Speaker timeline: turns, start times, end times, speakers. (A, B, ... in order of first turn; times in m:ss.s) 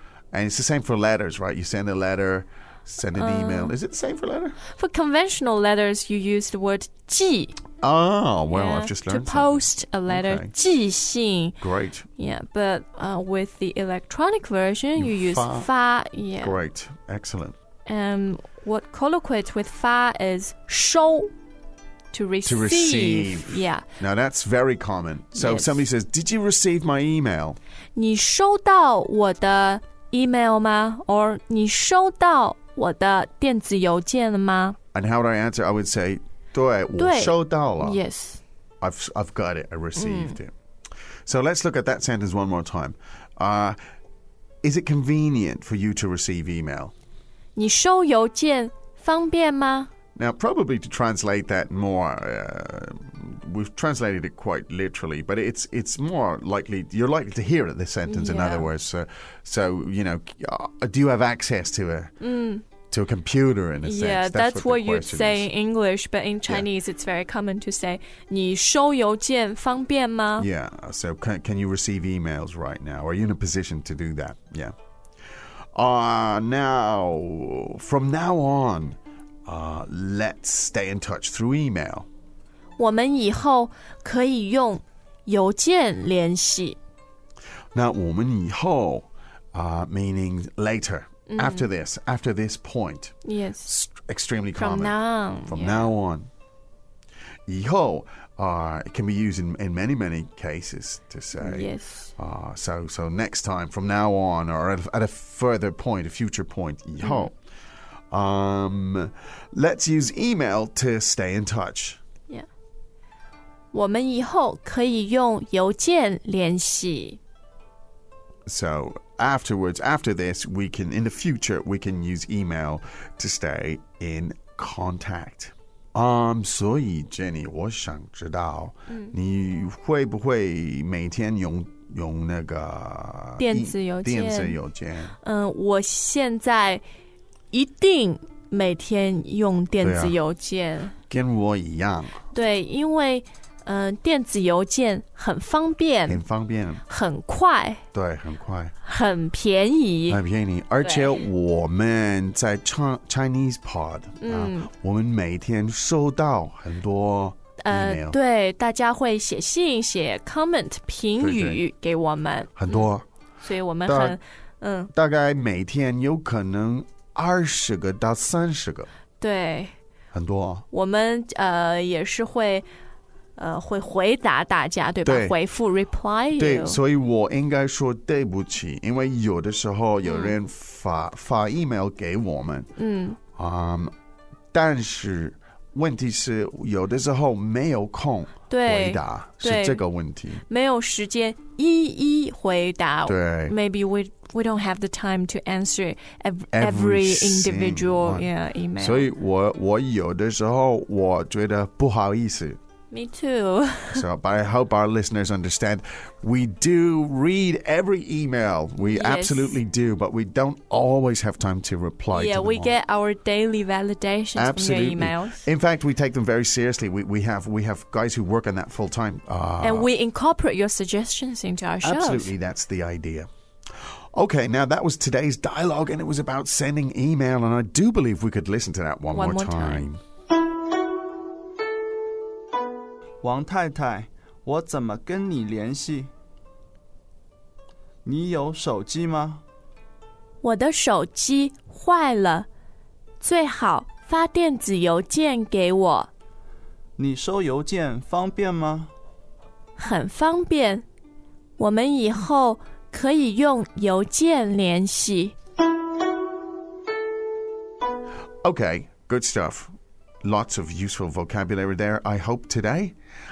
0:00.3-0:04.6 A
0:03.1-0:03.8 B
0:04.7-0:07.6 B
0:07.8-0:10.5 A
0:08.5-0:11.6 B
0:11.6-0:12.1 A
0:12.2-0:16.6 B
0:15.0-0:15.7 A
0:16.4-0:17.6 A
0:17.9-0:21.3 B
0:22.1-0:23.8 B
0:22.4-0:27.6 A
0:25.4-0:25.8 B
0:28.0-0:34.8 B
0:34.9-0:38.0 A
0:37.0-0:38.4 B
0:38.8-0:40.5 A
0:40.0-0:40.4 B
0:41.3-0:43.8 A
0:44.6-0:46.9 A
0:47.6-0:49.9 B
0:50.2-1:02.1 A
0:58.1-0:58.7 B
1:02.2-1:02.6 B
1:02.9-1:05.5 A
1:03.8-1:10.5 B
1:10.4-1:14.7 A
1:15.8-1:22.1 A
1:22.8-1:26.8 B
1:27.7-1:36.3 A
1:31.3-1:31.7 B
1:33.2-1:33.7 B
1:34.6-1:35.9 B
1:37.5-1:47.4 A
1:41.4-1:42.1 B
1:47.0-1:47.3 B
1:48.1-1:52.0 A
1:53.7-1:57.2 B
1:58.5-2:15.2 A
2:08.9-2:09.1 B
2:13.4-2:14.6 B
2:15.2-2:16.8 B
2:17.5-2:21.0 B
2:19.8-2:20.2 A
2:21.1-2:22.2 A
2:22.3-2:26.2 B
2:26.1-2:26.8 A
2:26.9-2:27.8 B
2:27.9-2:28.7 A
2:28.8-2:30.2 B
2:30.1-2:38.2 A
2:30.8-2:31.1 B
2:34.2-2:34.7 B
2:37.6-2:42.9 B
2:41.2-2:41.6 A
2:42.6-2:43.1 A
2:43.4-2:44.9 B
2:43.8-2:44.2 A
2:44.9-2:48.9 A
2:49.2-2:49.8 B
2:50.1-2:50.7 A
2:50.7-2:52.7 B
2:53.4-2:56.8 B
2:55.1-2:55.4 A
2:56.4-3:02.7 A
3:00.0-3:00.4 B
3:02.8-3:03.2 B
3:03.4-3:03.9 A
3:04.5-3:10.4 A
3:08.5-3:09.8 B
3:10.5-3:19.1 B
3:13.1-3:13.5 A
3:16.5-3:22.6 A
3:22.9-3:24.0 B
3:23.9-3:32.8 A
3:28.8-3:29.6 B
3:32.1-3:35.4 B
3:34.4-3:39.9 A
3:39.6-3:42.3 B
3:41.8-3:43.3 A
3:44.1-3:50.0 A
3:49.1-3:49.9 B
3:53.2-3:56.1 C
3:58.0-3:59.4 C
4:00.4-4:02.5 B
4:03.2-4:06.1 B
4:07.0-4:08.9 C
4:09.8-4:10.8 B
4:11.6-4:15.4 B
4:18.4-4:23.0 A